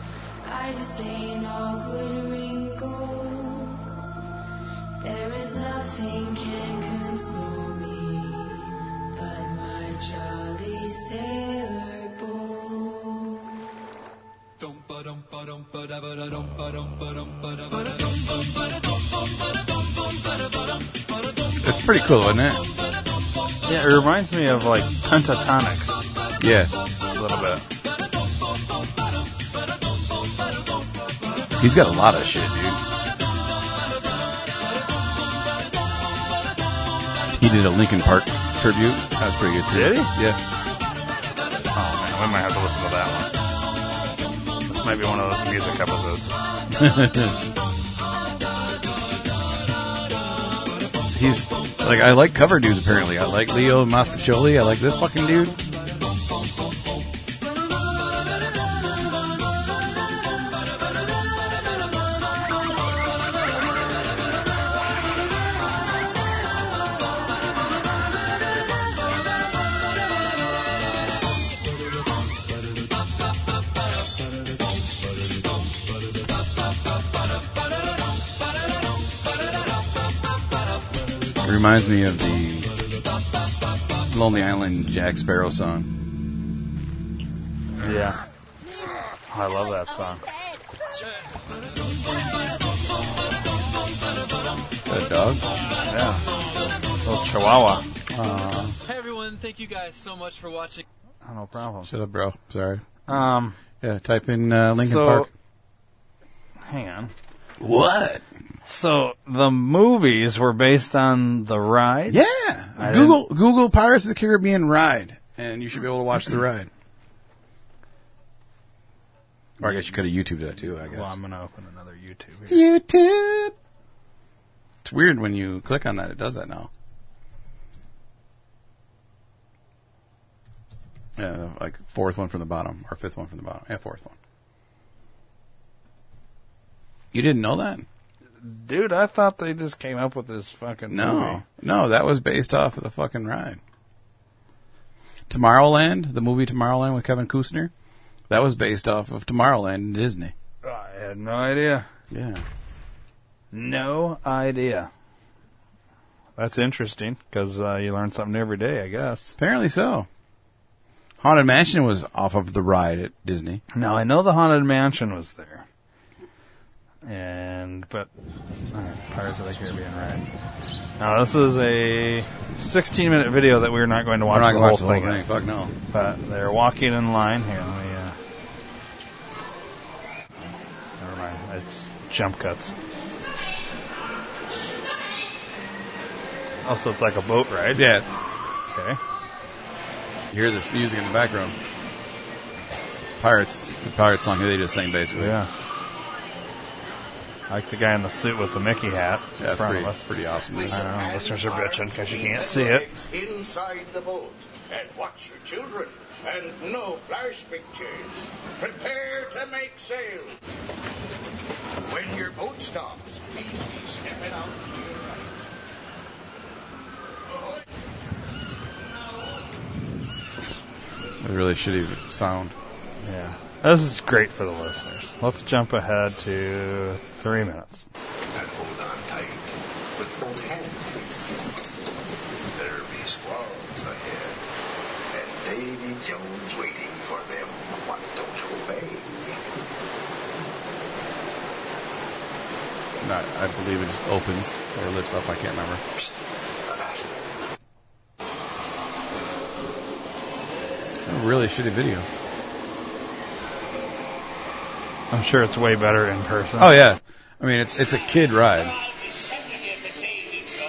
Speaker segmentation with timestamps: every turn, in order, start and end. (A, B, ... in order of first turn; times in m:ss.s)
0:00.4-0:03.9 A
0:05.0-0:13.4 A
0:21.6-0:22.6 B
0:23.6-0:26.0 C
0:26.4-0:26.7 B
0:27.1-0:27.6 C
0:31.6-0:32.8 B
0:37.4-0:40.4 B
0:39.7-0:40.1 C
0:41.7-0:43.3 C
0:44.7-0:46.4 C
0:46.8-0:47.4 B
0:51.1-0:55.6 B
1:21.4-1:22.7 B
1:24.1-1:25.9 B
1:27.8-1:28.2 C
1:29.3-1:30.2 C
1:34.9-1:35.4 B
1:35.8-1:36.2 C
1:37.0-1:38.8 C
1:38.8-1:40.8 D
1:41.2-1:41.9 C
1:41.9-1:42.8 B
1:43.1-1:43.6 C
1:43.8-1:45.3 B
1:44.8-1:45.3 C
1:46.7-1:47.1 C
1:47.6-1:48.2 B
1:48.6-1:52.2 C
1:52.1-1:56.7 B
1:52.8-1:53.2 C
1:59.6-2:01.1 B
2:00.8-2:02.6 C
2:02.5-2:03.5 B
2:04.8-2:06.7 B
2:11.2-2:14.2 B
2:17.1-2:17.9 B
2:18.4-2:21.4 C
2:20.9-2:23.6 B
2:25.3-2:27.7 B
2:28.3-2:30.3 B
2:30.6-2:31.9 C
2:32.1-2:32.4 B
2:33.5-2:34.9 C
2:36.4-2:39.4 C
2:39.4-2:40.1 B
2:41.2-2:43.6 B
2:43.7-2:45.6 C
2:47.0-2:48.1 C
2:48.7-2:50.2 C
2:51.0-2:55.2 C
2:54.2-2:55.7 B
2:55.9-2:58.2 C
3:01.0-3:02.7 C
3:06.6-3:07.8 C
3:07.7-3:08.1 B
3:08.7-3:09.0 C
3:10.3-3:11.6 B
3:13.2-3:15.3 B
3:15.2-3:15.5 C
3:17.5-3:20.0 C
3:19.4-3:20.8 B
3:20.5-3:30.4 E
3:20.7-3:22.9 C
3:31.8-3:35.4 E
3:41.2-3:42.5 B
3:43.0-3:47.9 C
3:48.3-3:51.1 E
3:52.5-3:54.4 E
3:55.1-3:59.4 E
4:03.0-4:05.8 B
4:06.7-4:07.0 E
4:11.0-4:12.1 B
4:15.1-4:16.7 C
4:16.6-4:18.7 B